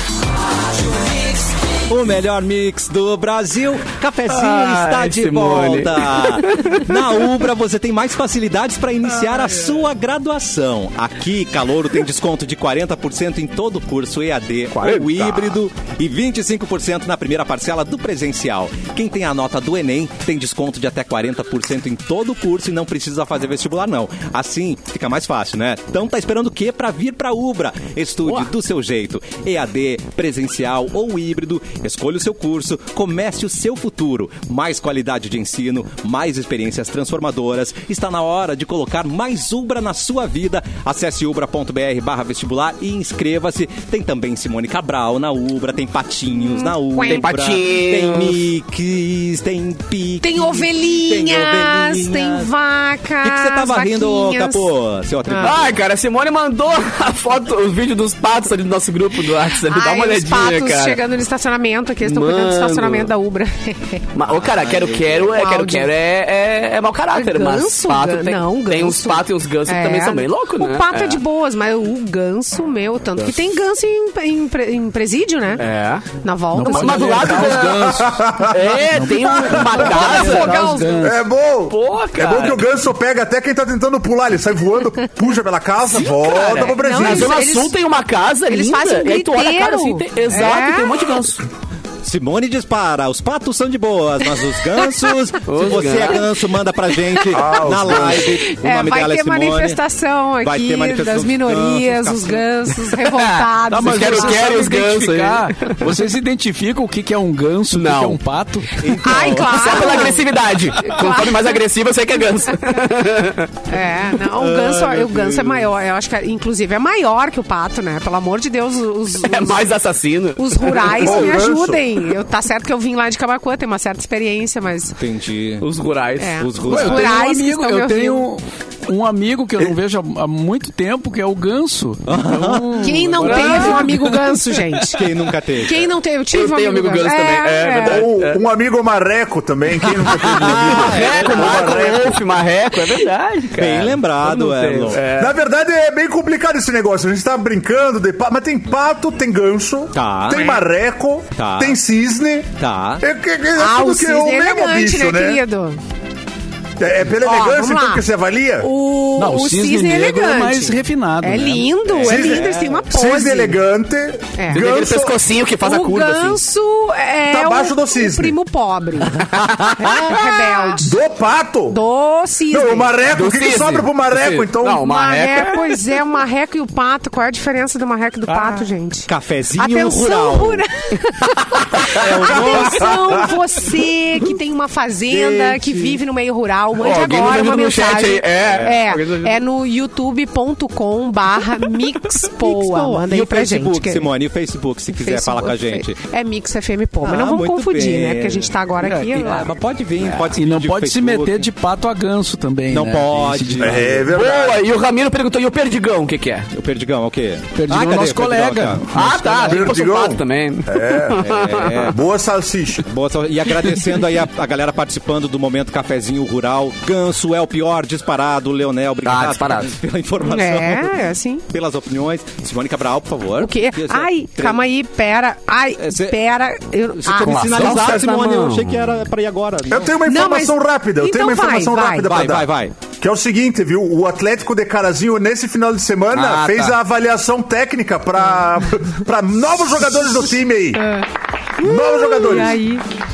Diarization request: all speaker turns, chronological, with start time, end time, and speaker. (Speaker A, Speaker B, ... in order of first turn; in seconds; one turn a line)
Speaker A: 1.9-52.5
Speaker B: 4.3-6.9
Speaker B: 14.7-15.6
Speaker C: 46.4-47.3
Speaker B: 47.1-48.4
Speaker C: 50.2-54.7
Speaker A: 53.2-55.8
Speaker C: 55.3-55.6
Speaker B: 55.4-61.0
Speaker C: 59.6-64.0
Speaker B: 62.0-63.1
Speaker B: 64.2-71.2
Speaker A: 64.2-65.3
Speaker C: 65.3-65.9
Speaker C: 67.1-75.6
Speaker B: 75.6-76.1
Speaker C: 76.2-77.6
Speaker D: 76.5-81.2
Speaker B: 76.7-80.7
Speaker E: 77.7-78.6
Speaker C: 79.5-81.1
Speaker E: 81.0-87.5
Speaker B: 81.7-82.7
Speaker B: 86.0-91.5
Speaker C: 86.5-87.8
Speaker C: 88.5-91.1
Speaker A: 92.0-99.8
Speaker B: 95.5-96.3
Speaker E: 97.3-98.3
Speaker C: 98.3-104.7
Speaker A: 100.4-102.5
Speaker B: 103.0-105.9
Speaker D: 103.7-108.9
Speaker B: 107.7-108.2
Speaker A: 108.8-110.2
Speaker C: 109.0-111.6
Speaker B: 109.3-113.5
Speaker C: 113.7-119.7
Speaker A: 114.3-115.8
Speaker B: 119.2-121.3
Speaker C: 120.4-125.0
Speaker E: 121.0-121.8
Speaker A: 125.0-125.7
Speaker B: 125.6-126.4
Speaker C: 126.2-128.3
Speaker A: 126.4-127.2
Speaker D: 126.6-134.5
Speaker A: 132.1-133.8
Speaker C: 132.8-138.1
Speaker B: 133.2-133.9
Speaker A: 134.9-135.9
Speaker B: 136.3-138.4
Speaker E: 137.8-142.2
Speaker A: 140.1-142.0
Speaker B: 140.1-145.3
Speaker A: 143.5-145.0
Speaker E: 145.2-152.5
Speaker A: 149.9-150.5
Speaker A: 151.3-151.8
Speaker A: 152.6-153.0
Speaker E: 153.0-155.4
Speaker C: 153.6-155.8
Speaker E: 156.8-158.7
Speaker C: 157.2-158.1
Speaker C: 158.6-163.6
Speaker D: 159.2-161.7
Speaker A: 161.8-162.8
Speaker E: 162.0-165.2
Speaker C: 164.4-164.7
Speaker B: 164.5-166.4
Speaker C: 165.6-171.0
Speaker E: 167.3-168.4
Speaker A: 169.6-170.1
Speaker E: 170.7-171.8
Speaker C: 171.7-173.0
Speaker E: 172.5-174.9
Speaker B: 173.1-175.8
Speaker C: 174.8-194.1
Speaker A: 179.1-180.7
Speaker A: 181.9-183.2
Speaker A: 185.1-186.0
Speaker B: 186.8-189.4
Speaker A: 188.4-188.9
Speaker A: 192.5-196.0
Speaker C: 194.9-199.5
Speaker A: 197.0-201.5
Speaker D: 198.8-199.3
Speaker B: 200.0-200.3
Speaker D: 200.4-204.0
Speaker A: 202.7-204.0
Speaker E: 203.6-204.7
Speaker B: 204.1-206.5
Speaker A: 206.5-208.9
Speaker D: 207.6-209.6
Speaker B: 208.9-211.9
Speaker E: 209.5-211.3
Speaker A: 211.2-212.0
Speaker E: 211.9-212.8
Speaker A: 212.9-224.6
Speaker B: 219.1-219.7
Speaker C: 220.2-221.4
Speaker C: 223.4-228.0
Speaker A: 225.8-226.2
Speaker A: 226.9-230.0
Speaker B: 227.2-228.8
Speaker E: 229.7-240.9
Speaker C: 230.0-232.2
Speaker A: 232.0-232.8
Speaker B: 236.1-236.8
Speaker C: 240.8-241.1
Speaker C: 241.6-242.8
Speaker E: 241.6-242.6